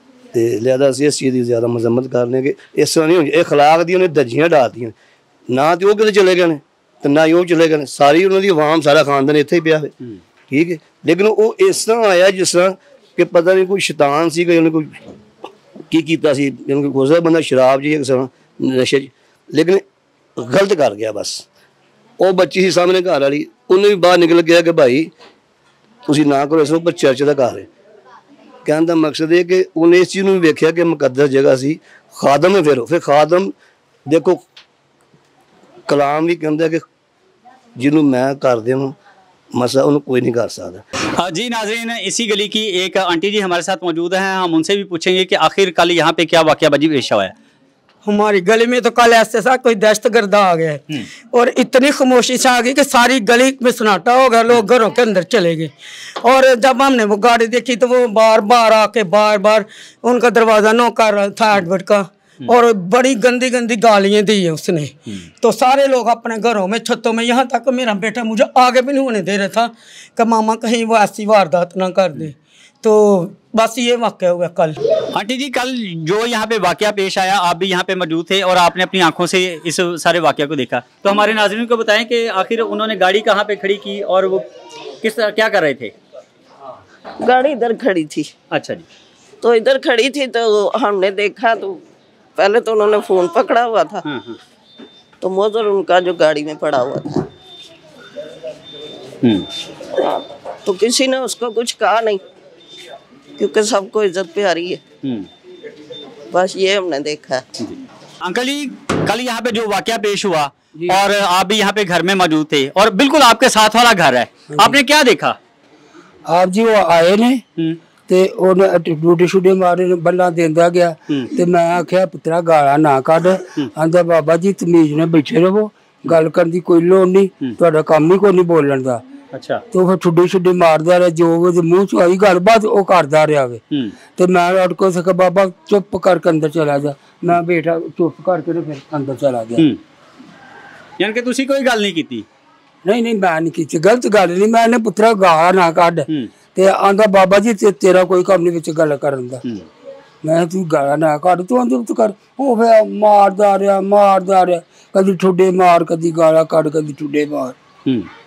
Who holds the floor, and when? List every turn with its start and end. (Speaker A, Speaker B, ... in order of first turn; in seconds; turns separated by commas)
Speaker A: 0.3-4.9, Speaker A: 5.5-9.9, Speaker A: 10.5-15.0, Speaker A: 15.9-19.8, Speaker A: 20.4-21.4, Speaker A: 22.2-25.1, Speaker A: 26.1-27.7, Speaker A: 28.6-33.5, Speaker A: 34.1-34.4, Speaker A: 35.9-36.8, Speaker A: 37.8-38.9, Speaker A: 39.5-40.8, Speaker B: 41.1-47.3, Speaker C: 48.0-55.7, Speaker C: 56.2-74.8, Speaker B: 75.1-84.4, Speaker B: 85.0-86.0, Speaker D: 87.2-88.3, Speaker B: 88.5-88.8, Speaker D: 89.4-91.8, Speaker D: 92.3-94.0, Speaker B: 94.0-94.4, Speaker D: 95.2-97.3, Speaker D: 100.0-102.2, Speaker D: 103.4-104.8, Speaker D: 106.3-107.4, Speaker B: 107.6-115.4, Speaker E: 116.3-117.4, Speaker E: 118.1-129.0, Speaker B: 129.3-129.6, Speaker E: 129.7-133.6, Speaker E: 134.2-139.7, Speaker B: 141.0-142.2, Speaker E: 142.8-149.4, Speaker E: 150.2-157.6